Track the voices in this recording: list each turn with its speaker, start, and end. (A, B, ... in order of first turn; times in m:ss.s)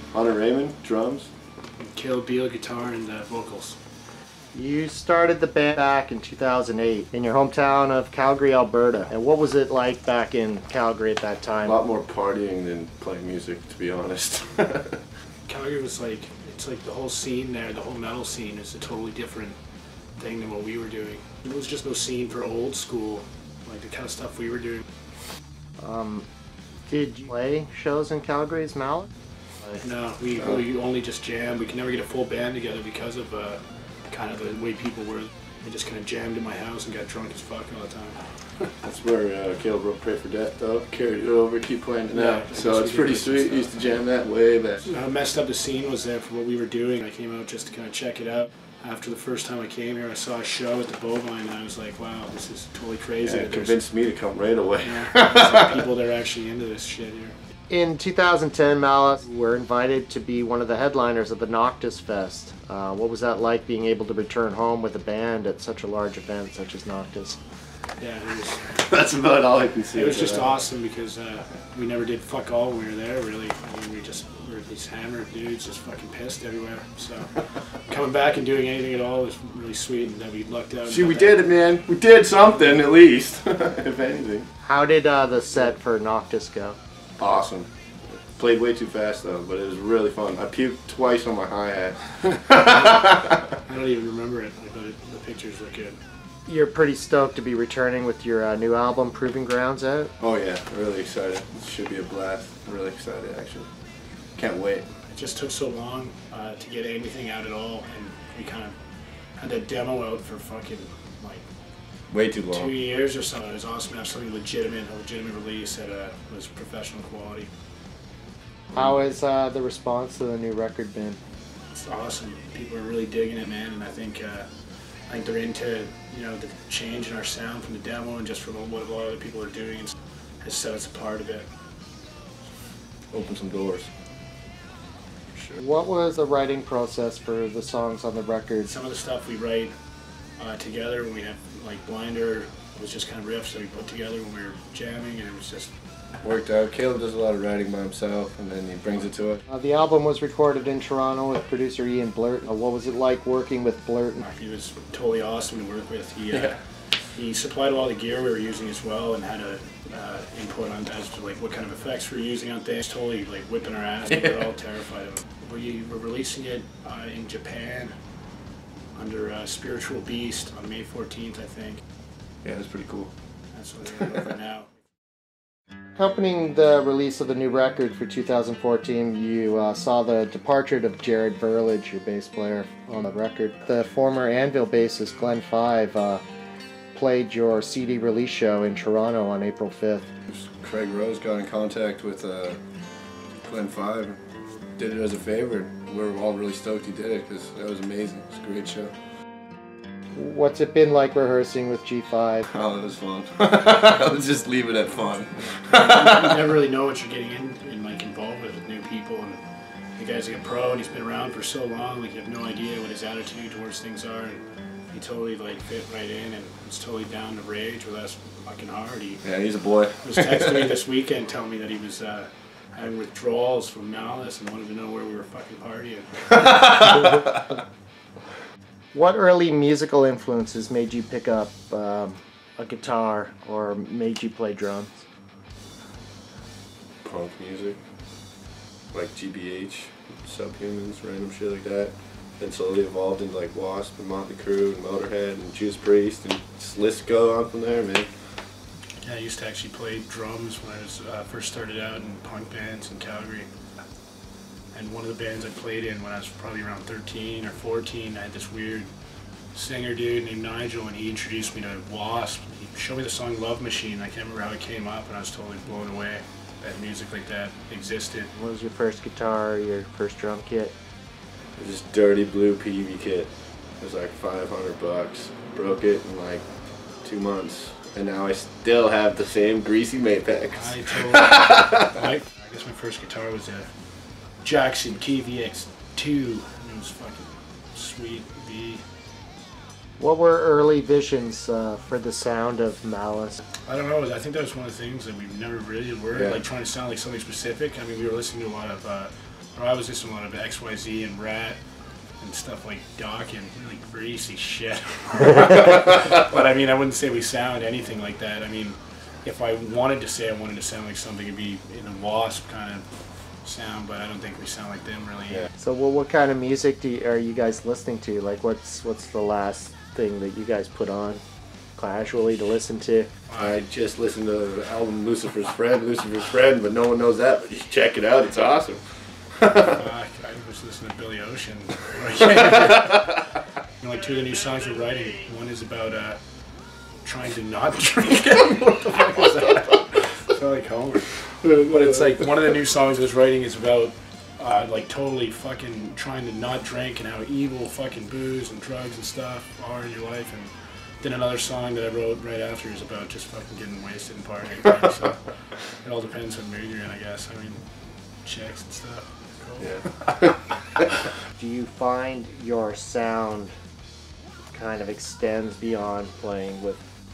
0:00.1-0:01.3 A
0:01.8-0:03.8 B
0:04.5-0:11.8 C
0:11.6-0:15.0 A
0:15.5-0:19.6 B
0:20.2-0:24.8 B
0:25.8-0:26.3 C
0:26.9-0:29.1 C
0:29.8-0:38.7 B
0:38.8-0:44.8 A
0:42.1-0:43.7 B
0:44.8-0:53.7 B
0:53.2-0:55.8 A
0:54.8-0:57.3 B
0:57.7-1:07.4 C
1:08.0-1:08.7 B
1:08.7-1:10.5 A
1:09.9-1:21.4 B
1:20.9-1:24.5 A
1:24.6-1:26.8 C
1:27.2-1:27.7 A
1:28.4-1:33.6 A
1:33.6-1:36.0 B
1:36.5-1:40.1 C
1:40.2-1:43.7 A
1:44.4-1:44.8 A
1:45.1-1:48.8 B
1:49.4-1:51.4 B
1:52.1-1:52.7 A
1:52.5-1:57.5 B
1:58.7-2:01.2 C
2:01.7-2:04.5 B
2:05.1-2:11.5 B
2:13.1-2:13.9 A
2:15.3-2:15.6 B
2:15.6-2:18.7 C
2:18.6-2:19.7 B
2:20.4-2:25.7 B
2:26.2-2:29.4 A
2:29.5-2:34.2 C
2:34.2-2:36.6 B
2:37.1-2:48.0 B
2:48.9-2:51.8 B
2:52.4-2:53.1 A
2:53.5-2:54.7 B
2:56.0-3:06.2 C
3:06.9-3:10.1 C
3:10.3-3:12.6 A
3:13.4-3:14.2 A
3:14.8-3:18.9 A
3:20.1-3:22.5 C
3:22.5-3:26.4 A
3:25.7-3:29.4 B
3:30.0-3:39.2 B
3:39.2-3:40.7 A
3:40.0-3:46.7 B
3:46.4-3:47.1 A
3:48.9-3:55.0 C
3:57.0-3:57.8 A
3:58.9-4:08.1 A
4:09.0-4:13.5 B
4:14.7-4:18.9 B
4:19.5-4:28.3 B
4:28.3-4:30.7 C
4:31.6-4:36.4 A
4:37.0-4:41.9 A
4:40.5-4:43.7 B
4:44.4-4:48.8 B
4:50.0-4:53.4 C
4:53.6-5:01.6 B
4:56.1-4:56.4 A
5:02.2-5:12.9 B
5:13.4-5:15.5 B
5:15.6-5:21.2 C
5:21.8-5:23.1 C
5:23.3-5:23.6 B
5:23.4-5:28.8 A
5:29.4-5:29.7 A
5:29.6-5:33.2 B
5:33.8-5:36.2 B
5:37.0-5:57.7 B
5:58.2-5:59.8 B
5:59.6-6:00.5 A
6:01.4-6:03.5 C
6:04.5-6:06.8 C